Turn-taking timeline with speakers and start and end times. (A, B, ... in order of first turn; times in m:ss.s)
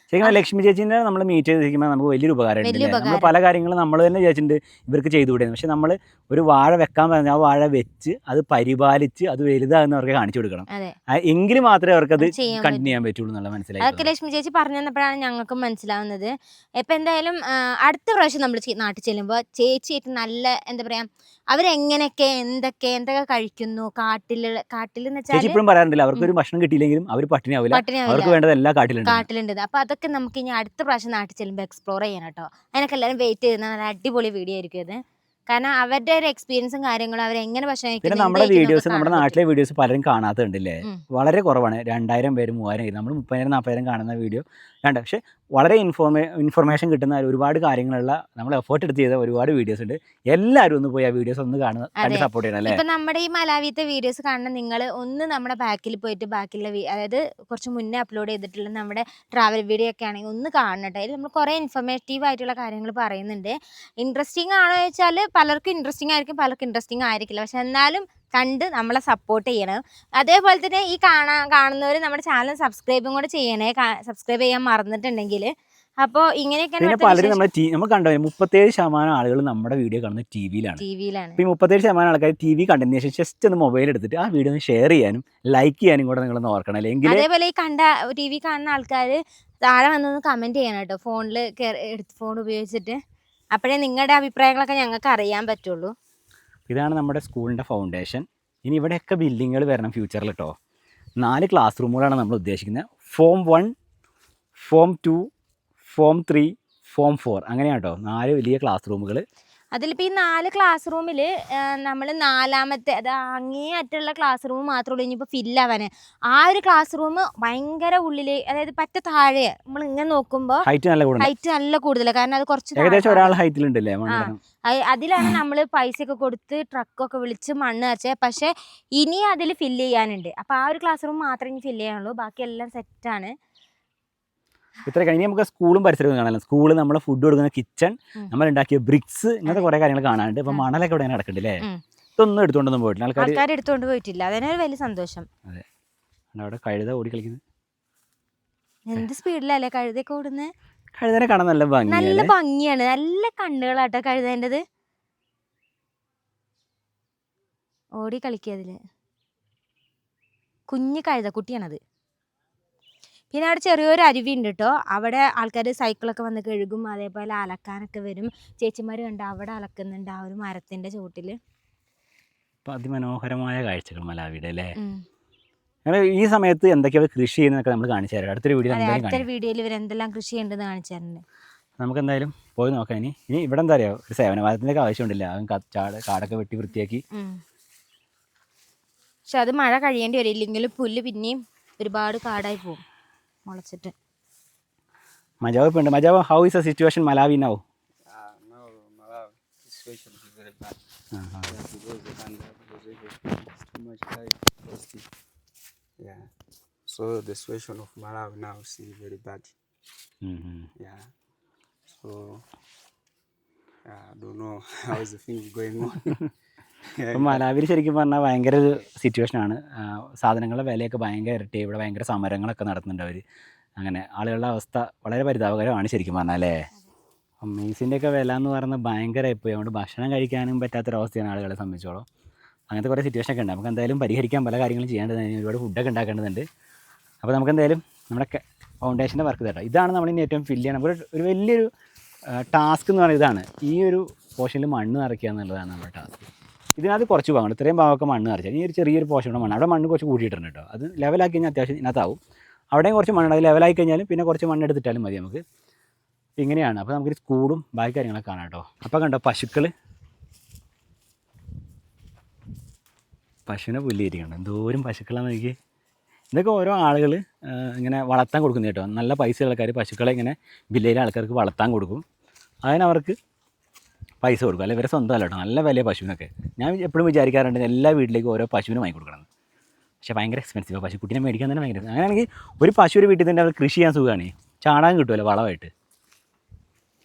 0:00.1-0:14.1 A
0:02.6-0:03.3 B
0:10.7-0:11.0 B
0:12.2-0:12.9 B
0:13.8-0:25.6 B
0:25.3-0:29.3 A
0:27.7-0:28.4 B
0:29.0-0:39.4 B
0:38.0-0:52.8 A
0:52.0-1:15.5 B
1:16.0-1:17.4 B
1:16.8-1:20.8 A
1:20.8-1:21.4 B
1:21.4-1:27.2 A
1:27.0-1:33.0 B
1:33.5-1:35.9 B
1:36.7-1:40.6 A
1:41.2-1:43.7 A
1:44.6-1:45.3 A
1:45.8-1:49.2 A
1:49.8-2:00.7 B
2:00.6-2:01.3 A
2:01.2-2:03.3 B
2:02.8-2:04.4 A
2:04.1-2:13.4 B
2:14.9-2:21.6 A
2:22.2-2:23.4 A
2:23.2-2:25.3 B
2:26.3-2:27.4 A
2:28.9-2:30.5 B
2:31.0-2:32.3 A
2:31.9-2:34.6 B
2:38.0-2:38.8 B
2:40.7-2:41.8 B
2:43.3-2:51.4 B
2:52.6-2:54.8 A
2:54.8-2:55.0 B
2:55.8-2:59.3 A
2:58.7-3:01.2 B
3:01.8-3:07.0 A
3:07.1-3:07.4 B
3:09.3-3:12.8 B
3:13.5-3:13.9 B
3:15.4-3:17.6 A
3:18.1-3:20.8 C
3:21.1-3:21.5 A
3:21.4-3:25.1 C
3:26.0-3:26.3 C
3:26.9-3:29.5 C
3:30.2-3:30.7 A
3:30.8-3:31.1 C
3:32.0-3:32.4 C
3:33.9-3:36.3 C
3:37.0-3:37.5 C
3:37.1-3:43.2 A
3:43.8-3:46.7 A
3:47.4-3:52.1 A
3:52.7-3:56.5 A
3:57.2-4:01.7 A
4:02.3-4:12.2 A
4:12.7-4:15.4 A
4:16.4-4:19.7 A
4:23.5-4:25.6 A
4:26.3-4:32.0 A
4:32.6-4:33.2 A
4:34.2-4:39.3 A
4:40.0-4:45.7 A